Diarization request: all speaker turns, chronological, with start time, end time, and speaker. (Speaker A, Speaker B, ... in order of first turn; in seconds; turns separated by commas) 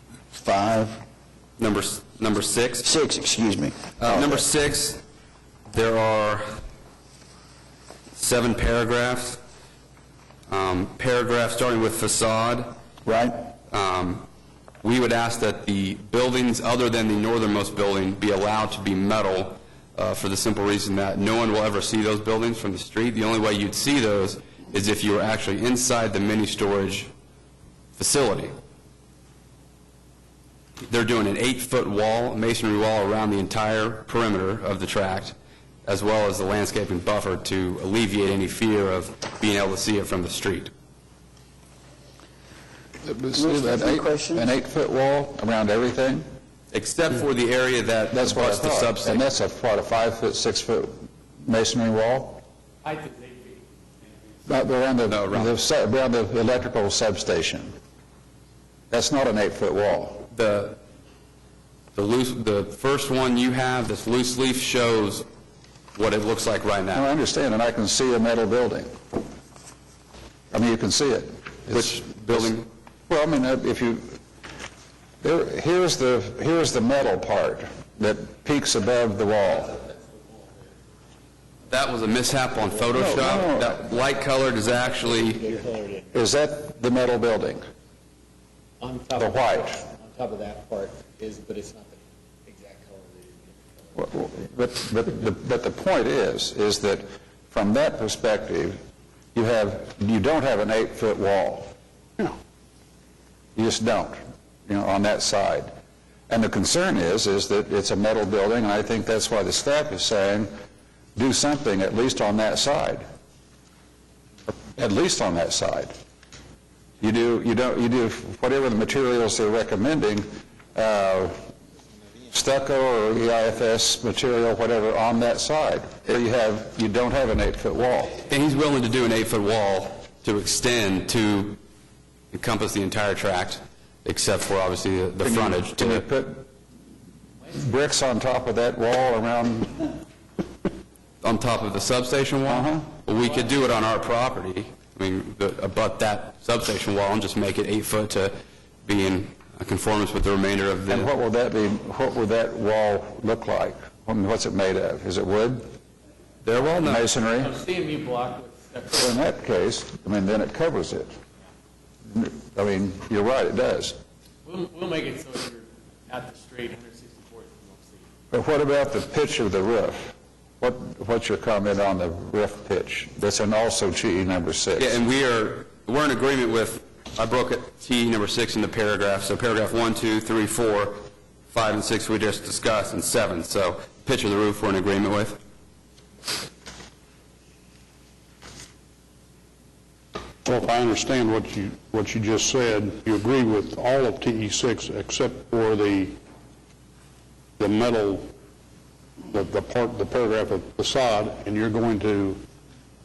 Speaker A: 0.3-1.0, Speaker B: 1.6-2.9, Speaker A: 2.8-4.4, Speaker B: 4.0-5.0, Speaker B: 5.7-6.5, Speaker B: 8.2-9.4, Speaker B: 10.5-12.8, Speaker A: 13.1-13.5, Speaker B: 13.7-14.2, Speaker B: 14.8-27.1, Speaker B: 28.0-28.6, Speaker B: 30.9-40.7, Speaker C: 43.0-46.2, Speaker A: 43.3-44.5, Speaker B: 46.7-49.3, Speaker C: 48.1-52.4, Speaker D: 52.8-53.7, Speaker C: 54.5-57.7, Speaker B: 55.1-55.5, Speaker C: 58.9-60.3, Speaker B: 60.3-60.8, Speaker B: 62.0-65.2, Speaker B: 66.0-67.1, Speaker C: 66.9-68.9, Speaker C: 70.5-72.5, Speaker B: 71.7-72.7, Speaker C: 73.1-74.2, Speaker C: 75.2-79.8, Speaker D: 79.9-80.5, Speaker B: 81.7-85.4, Speaker C: 82.9-83.8, Speaker D: 84.7-86.3, Speaker C: 86.1-87.6, Speaker D: 88.8-94.1, Speaker C: 89.2-89.8, Speaker C: 94.0-98.8, Speaker C: 99.3-101.7, Speaker C: 103.6-105.7, Speaker C: 106.3-110.5, Speaker C: 111.2-113.0, Speaker C: 114.6-115.9, Speaker C: 117.0-121.4, Speaker C: 122.3-128.2, Speaker B: 128.2-131.6, Speaker B: 132.3-136.1, Speaker C: 135.2-136.5, Speaker C: 137.6-140.0, Speaker B: 141.2-151.1, Speaker C: 142.5-142.9, Speaker C: 150.9-155.7, Speaker B: 156.4-157.1, Speaker C: 156.8-157.6, Speaker D: 157.4-159.3, Speaker C: 158.9-161.1, Speaker C: 162.1-164.0, Speaker D: 164.4-168.1, Speaker C: 168.3-175.0, Speaker B: 174.8-185.4, Speaker E: 190.4-196.2, Speaker E: 197.6-198.3, Speaker E: 199.2-202.4